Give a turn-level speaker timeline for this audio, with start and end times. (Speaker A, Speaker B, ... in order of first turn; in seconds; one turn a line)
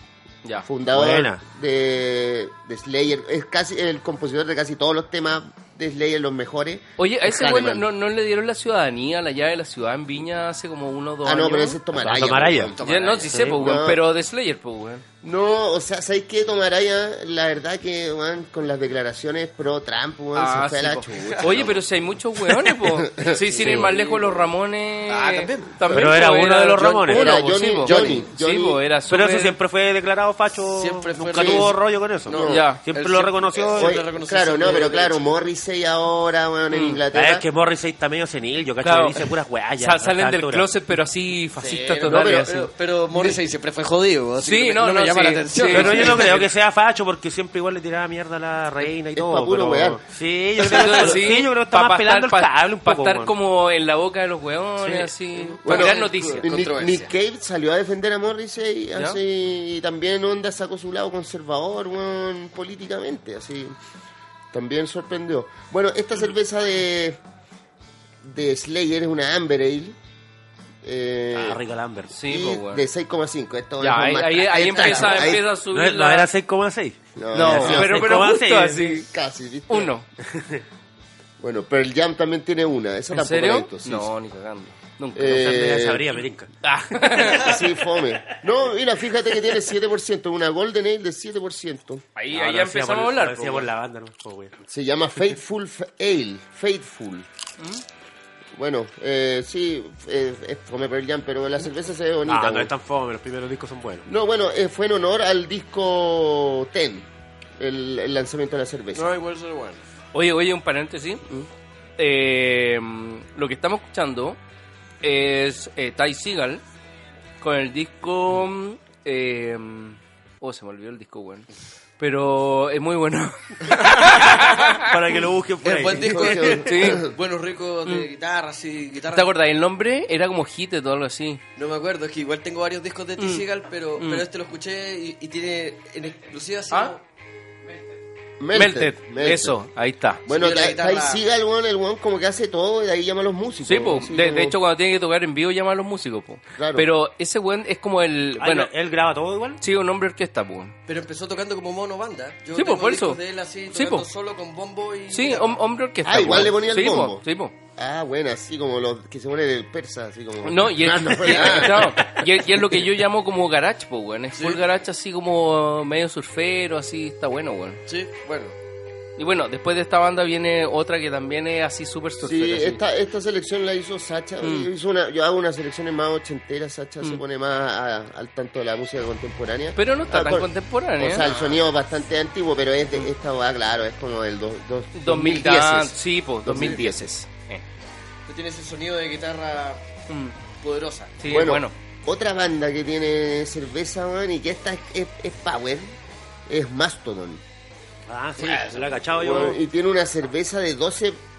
Speaker A: 0.6-7.8
Speaker B: 0.9-1.4
Speaker C: 7.0-11.8
Speaker A: 11.2-12.8
Speaker B: 11.9-12.7
Speaker D: 12.7-13.6
Speaker C: 12.8-15.0
Speaker A: 13.4-14.0
Speaker A: 15.2-21.8
Speaker C: 20.3-29.5
Speaker A: 22.7-23.9
Speaker D: 23.4-24.5
Speaker D: 25.1-25.7
Speaker A: 25.9-26.2
Speaker B: 25.9-27.5
Speaker A: 27.1-28.8
Speaker D: 27.8-28.3
Speaker B: 29.1-34.0
Speaker D: 30.7-35.2
Speaker A: 31.3-31.7
Speaker A: 32.3-32.7
Speaker C: 32.5-32.8
Speaker A: 33.8-37.5
Speaker C: 36.7-37.0
Speaker B: 37.1-40.7
Speaker C: 38.8-39.2
Speaker C: 39.8-43.3
Speaker D: 41.6-46.5
Speaker A: 42.1-42.5
Speaker C: 44.4-46.4
Speaker B: 45.7-53.3
Speaker A: 49.1-50.0
Speaker C: 50.6-56.5
Speaker D: 50.6-50.9
Speaker D: 55.6-57.1
Speaker A: 55.6-63.8
Speaker A: 64.5-67.2
Speaker A: 68.2-70.0
Speaker A: 70.8-71.6
Speaker B: 71.3-72.1
Speaker C: 72.1-72.8
Speaker A: 72.2-75.4
Speaker C: 73.8-76.3
Speaker B: 75.2-79.0
Speaker A: 77.2-78.3
Speaker C: 77.3-79.1
Speaker A: 79.0-79.9
Speaker C: 79.7-80.0
Speaker B: 80.3-80.6
Speaker A: 81.4-84.1
Speaker C: 83.1-85.5
Speaker A: 85.1-86.2
Speaker B: 85.2-86.5
Speaker C: 86.6-87.6
Speaker A: 87.2-92.0
Speaker C: 92.2-93.7
Speaker B: 92.3-94.5
Speaker A: 94.7-97.3
Speaker A: 98.5-102.7
Speaker B: 102.3-104.1
Speaker A: 104.0-107.1
Speaker A: 107.6-109.1
Speaker D: 108.9-109.8
Speaker C: 110.1-111.2
Speaker C: 112.0-114.4
Speaker C: 115.0-116.6
Speaker C: 117.4-121.5
Speaker C: 122.0-124.9
Speaker B: 124.1-126.6
Speaker D: 125.6-129.3
Speaker A: 126.0-127.1
Speaker C: 126.6-127.0
Speaker C: 129.1-131.4
Speaker D: 131.6-137.0
Speaker C: 133.2-133.4
Speaker C: 134.0-134.2
Speaker C: 136.7-136.9
Speaker A: 138.4-139.6
Speaker C: 138.5-140.2
Speaker A: 140.2-144.6
Speaker D: 140.3-141.2
Speaker C: 143.6-148.7
Speaker A: 146.6-146.9
Speaker B: 148.4-149.6
Speaker C: 149.6-150.7
Speaker D: 150.9-155.6
Speaker C: 152.5-153.2
Speaker C: 153.7-154.1
Speaker C: 155.1-157.5
Speaker A: 156.0-162.8
Speaker C: 160.4-167.8
Speaker D: 161.2-161.8
Speaker D: 167.9-168.6
Speaker C: 169.2-172.8
Speaker A: 172.2-187.1
Speaker C: 174.4-174.7
Speaker C: 179.8-181.3
Speaker D: 181.2-181.6
Speaker C: 184.9-187.6
Speaker D: 186.5-186.8
Speaker D: 188.3-189.8
Speaker C: 190.1-190.3
Speaker D: 190.6-191.2
Speaker C: 191.2-191.7
Speaker A: 191.3-195.9
Speaker A: 196.5-197.4
Speaker B: 198.1-199.6
Speaker D: 198.4-199.4
Speaker A: 199.2-201.2